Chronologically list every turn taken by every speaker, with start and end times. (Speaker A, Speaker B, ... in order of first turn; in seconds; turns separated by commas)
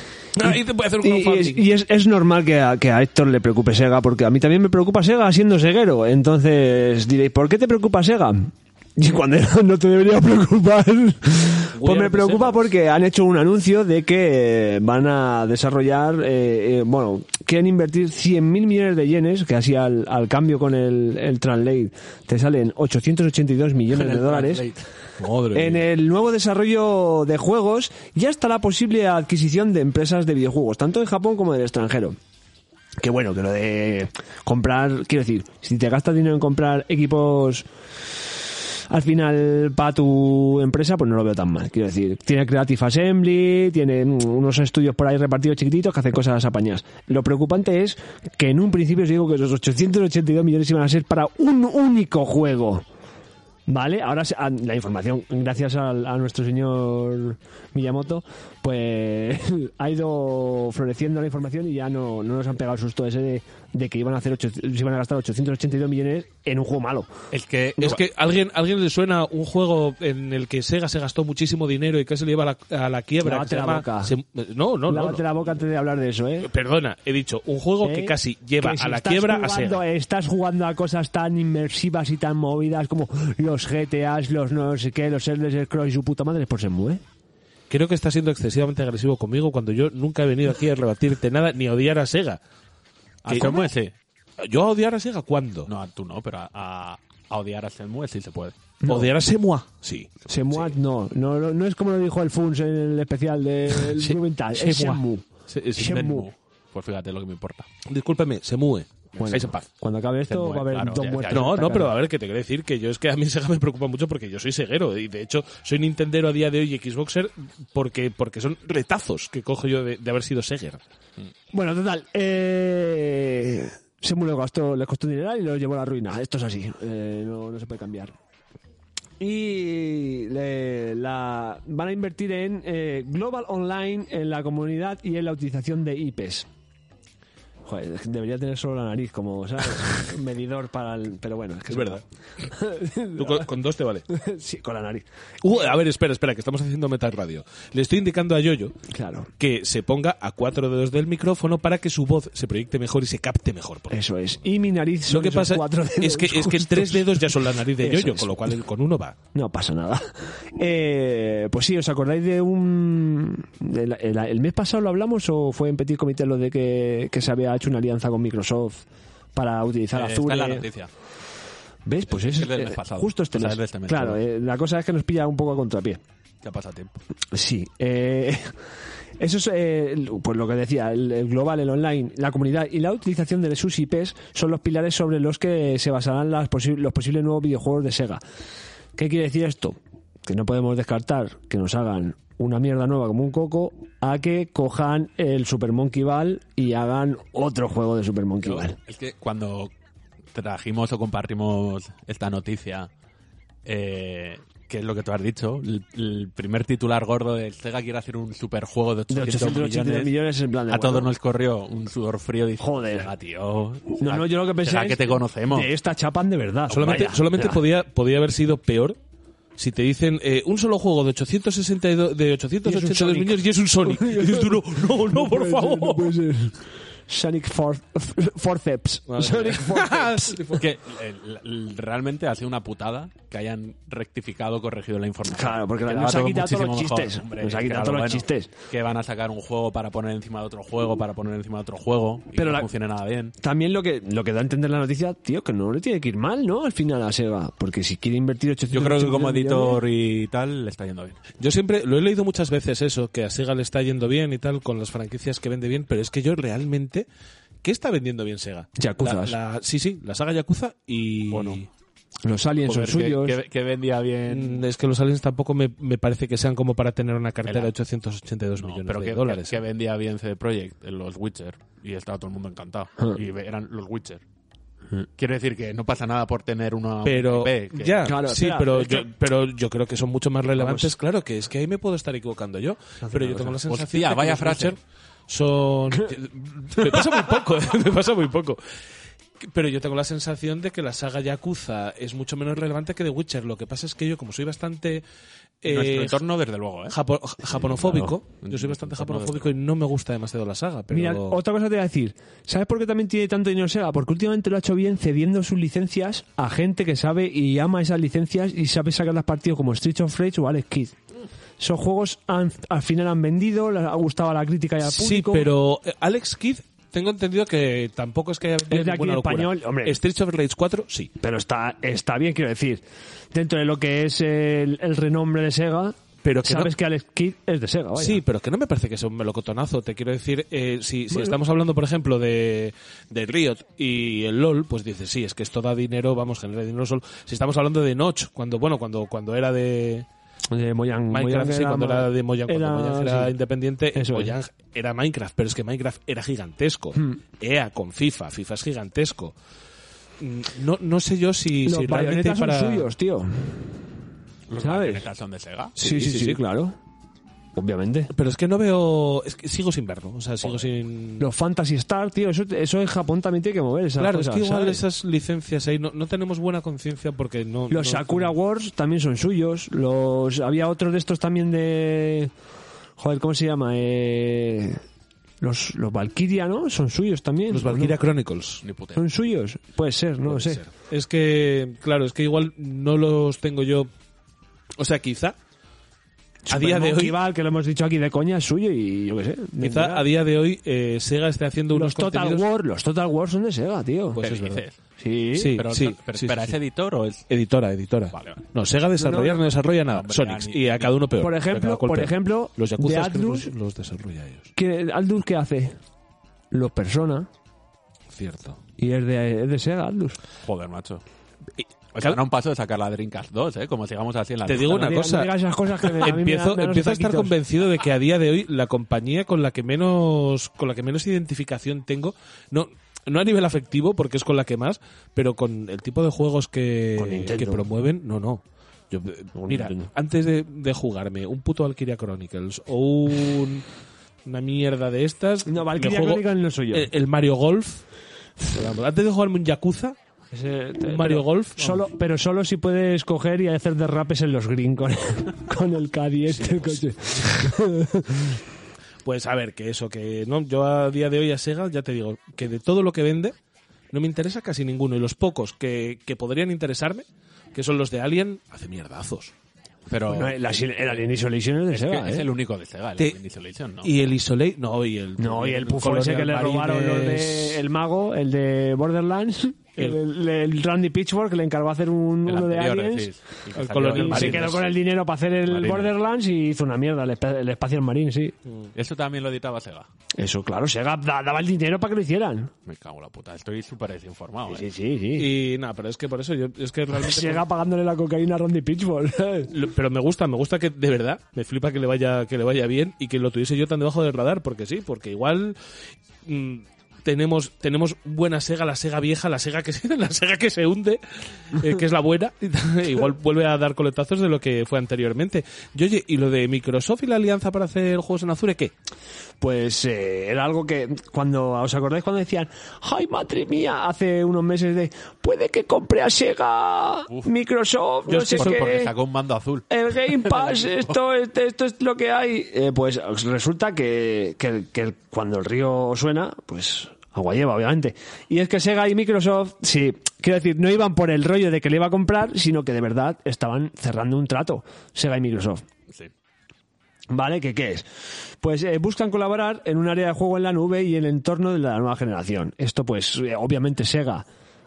Speaker A: 0.3-1.6, Speaker B: 0.4-24.6, Speaker A: 11.7-12.7, Speaker C: 23.9-25.8, Speaker A: 25.2-25.6, Speaker B: 25.5-32.2, Speaker B: 33.0-37.7, Speaker B: 38.9-52.9, Speaker B: 53.7-67.1, Speaker C: 67.3-68.0, Speaker A: 67.8-75.2, Speaker B: 73.2-74.1, Speaker B: 74.9-76.5, Speaker A: 76.4-79.8, Speaker B: 77.8-87.0, Speaker A: 87.7-92.4, Speaker C: 93.2-93.9, Speaker A: 93.3-93.6, Speaker A: 94.4-95.7, Speaker C: 95.7-98.6, Speaker B: 98.8-99.1, Speaker A: 98.8-100.1, Speaker C: 100.2-100.8, Speaker B: 100.3-106.3, Speaker A: 103.7-106.0, Speaker C: 105.7-107.7, Speaker A: 107.8-109.6, Speaker B: 109.2-111.9, Speaker C: 110.3-111.7, Speaker A: 111.3-120.8, Speaker B: 121.5-128.1, Speaker B: 129.2-136.5, Speaker B: 137.6-143.5, Speaker A: 141.7-142.0, Speaker A: 143.1-144.0, Speaker B: 144.1-145.7, Speaker A: 145.4-148.7, Speaker B: 148.9-149.3, Speaker A: 149.4-154.0, Speaker B: 153.9-158.5, Speaker A: 155.1-159.2, Speaker B: 159.3-170.7, Speaker C: 169.9-170.9, Speaker B: 171.8-176.0, Speaker C: 172.1-174.2, Speaker C: 176.4-177.0, Speaker B: 177.3-178.5, Speaker B: 179.2-188.2, Speaker B: 188.9-198.8, Speaker C: 198.4-199.7, Speaker C: 200.3-202.9, Speaker C: 203.6-210.1, Speaker B: 209.1-211.1, Speaker C: 210.7-215.7, Speaker B: 212.6-213.1, Speaker B: 214.0-217.6, Speaker C: 216.7-217.1, Speaker A: 216.7-219.0, Speaker A: 219.6-226.1, Speaker B: 222.6-230.5, Speaker A: 229.1-230.7, Speaker C: 230.6-243.3, Speaker B: 235.3-238.5, Speaker B: 242.3-242.7, Speaker B: 243.4-249.8, Speaker C: 248.7-251.2, Speaker A: 251.4-257.1, Speaker A: 257.6-261.7, Speaker B: 258.8-259.4, Speaker C: 261.3-261.6, Speaker B: 262.2-263.4, Speaker C: 262.6-264.6, Speaker A: 264.3-269.6, Speaker C: 267.4-267.7, Speaker C: 268.6-274.2, Speaker C: 274.9-278.1, Speaker A: 277.0-288.6, Speaker B: 278.0-279.1, Speaker B: 280.6-280.9, Speaker B: 283.0-283.5, Speaker C: 283.6-284.8, Speaker A: 289.4-295.0, Speaker A: 295.6-296.2, Speaker C: 295.6-299.5, Speaker A: 296.9-301.4, Speaker B: 300.9-311.0, Speaker B: 311.6-315.5, Speaker A: 314.8-321.1, Speaker B: 318.7-320.0, Speaker B: 321.2-328.2, Speaker A: 326.2-326.7, Speaker A: 328.0-340.1, Speaker B: 331.1-331.4, Speaker B: 340.5-343.3, Speaker A: 341.1-349.3, Speaker B: 343.9-344.4, Speaker A: 350.2-352.9, Speaker B: 351.6-353.6, Speaker C: 354.5-355.7, Speaker B: 354.5-355.1, Speaker B: 355.8-356.8, Speaker A: 355.8-356.4, Speaker B: 357.5-358.1, Speaker A: 358.1-361.3, Speaker C: 360.4-360.7, Speaker B: 361.2-364.8, Speaker A: 364.0-368.3, Speaker B: 367.7-372.3, Speaker B: 373.0-374.8, Speaker B: 375.4-378.0, Speaker A: 377.5-378.6, Speaker C: 378.6-379.1, Speaker B: 378.9-380.6, Speaker A: 380.3-383.9, Speaker A: 384.8-385.4, Speaker B: 386.4-390.1, Speaker A: 386.5-387.2, Speaker A: 389.6-392.4, Speaker B: 391.7-394.2, Speaker A: 394.1-394.6, Speaker C: 394.2-394.8, Speaker B: 395.0-395.6, Speaker A: 395.3-396.6, Speaker C: 395.5-397.2, Speaker A: 397.3-404.5, Speaker C: 398.1-398.4, Speaker B: 399.0-399.4, Speaker C: 399.9-401.0, Speaker B: 401.2-403.5, Speaker B: 404.6-405.8, Speaker B: 406.5-407.3, Speaker A: 408.1-408.6, Speaker B: 408.8-410.2, Speaker C: 410.4-411.0, Speaker A: 411.6-412.2, Speaker C: 411.9-414.9, Speaker A: 414.4-415.3, Speaker B: 414.6-417.4, Speaker A: 416.0-433.6, Speaker B: 427.0-427.7, Speaker B: 429.3-429.9, Speaker A: 434.2-437.8, Speaker B: 435.4-436.9, Speaker A: 438.4-440.0, Speaker B: 440.3-448.4, Speaker A: 440.8-441.9, Speaker A: 446.3-447.2, Speaker A: 449.0-453.3, Speaker A: 453.9-459.3, Speaker C: 459.9-461.1, Speaker B: 460.1-462.3, Speaker C: 461.7-464.0, Speaker A: 463.8-467.6, Speaker B: 465.2-473.1, Speaker C: 472.2-474.7, Speaker A: 473.5-474.6, Speaker B: 473.9-478.4, Speaker C: 475.5-475.9, Speaker A: 478.4-478.7, Speaker C: 478.7-479.9, Speaker B: 480.2-482.5, Speaker C: 482.6-484.7, Speaker B: 484.5-485.3, Speaker A: 485.1-487.4, Speaker B: 486.9-489.5, Speaker A: 489.5-495.6, Speaker A: 496.2-508.7, Speaker B: 509.4-518.9, Speaker A: 518.1-518.7, Speaker C: 518.1-520.8, Speaker B: 519.7-535.6, Speaker B: 537.1-537.9, Speaker B: 538.4-544.2